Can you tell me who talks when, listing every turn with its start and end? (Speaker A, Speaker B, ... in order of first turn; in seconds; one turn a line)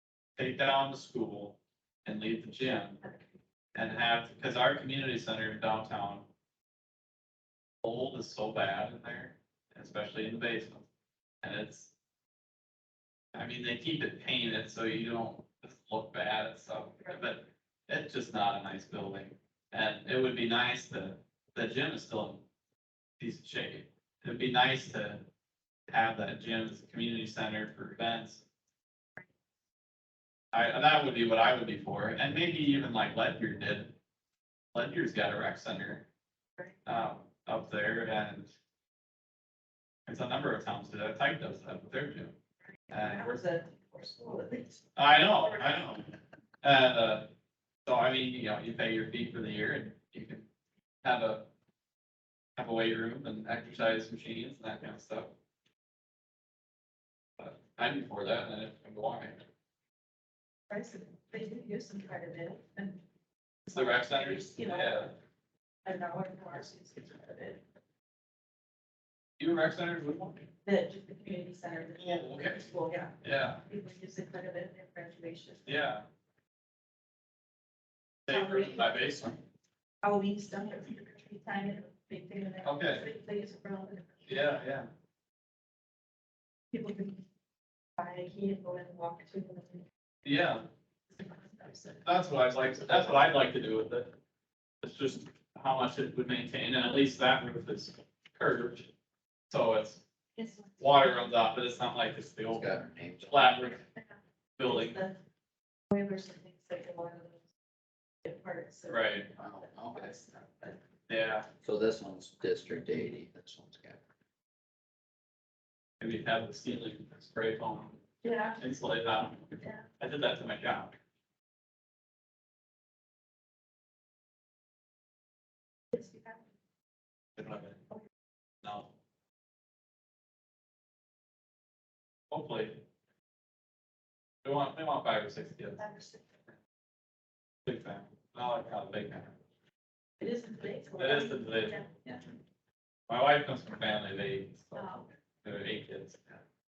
Speaker A: 0.4-3.0
Speaker A: 3.7-6.3
Speaker A: 7.8-10.8
Speaker A: 11.4-11.9
Speaker A: 13.3-22.4
Speaker A: 23.2-25.2
Speaker A: 25.9-28.4
Speaker A: 30.5-34.0
Speaker A: 34.7-36.0
Speaker A: 36.9-38.5
Speaker A: 40.0-42.3
Speaker A: 42.9-43.3
Speaker B: 42.9-44.8
Speaker A: 45.0-46.0
Speaker B: 45.4-45.9
Speaker A: 46.6-47.3
Speaker A: 47.9-50.5
Speaker A: 51.0-51.5
Speaker A: 52.5-55.3
Speaker A: 57.4-59.4
Speaker B: 60.7-63.0
Speaker B: 63.7-65.1
Speaker A: 63.7-65.1
Speaker B: 65.8-67.6
Speaker A: 69.4-70.4
Speaker B: 70.6-73.2
Speaker A: 72.0-72.7
Speaker A: 73.2-73.6
Speaker B: 73.7-75.7
Speaker A: 75.7-76.0
Speaker A: 78.2-79.4
Speaker B: 78.3-79.0
Speaker B: 80.0-84.4
Speaker A: 82.6-83.1
Speaker A: 84.2-84.9
Speaker B: 86.7-87.2
Speaker B: 88.0-89.8
Speaker A: 90.2-90.6
Speaker B: 91.1-92.1
Speaker A: 92.0-94.1
Speaker A: 94.8-98.9
Speaker A: 99.5-100.0
Speaker B: 100.4-101.2
Speaker A: 100.8-103.8
Speaker C: 102.5-103.5
Speaker B: 104.0-105.2
Speaker A: 104.6-105.0
Speaker B: 105.9-107.4
Speaker B: 108.2-110.8
Speaker A: 108.9-109.3
Speaker C: 109.4-110.1
Speaker A: 111.1-111.5
Speaker C: 111.6-114.0
Speaker A: 116.0-118.0
Speaker B: 118.2-118.6
Speaker A: 118.6-121.0
Speaker B: 125.9-126.4
Speaker A: 127.4-127.8
Speaker A: 128.6-128.9
Speaker A: 132.3-132.8
Speaker A: 134.4-135.8
Speaker B: 135.8-136.2
Speaker A: 137.6-139.4
Speaker B: 140.2-142.2
Speaker A: 141.0-141.9
Speaker A: 143.1-146.4
Speaker B: 144.8-145.1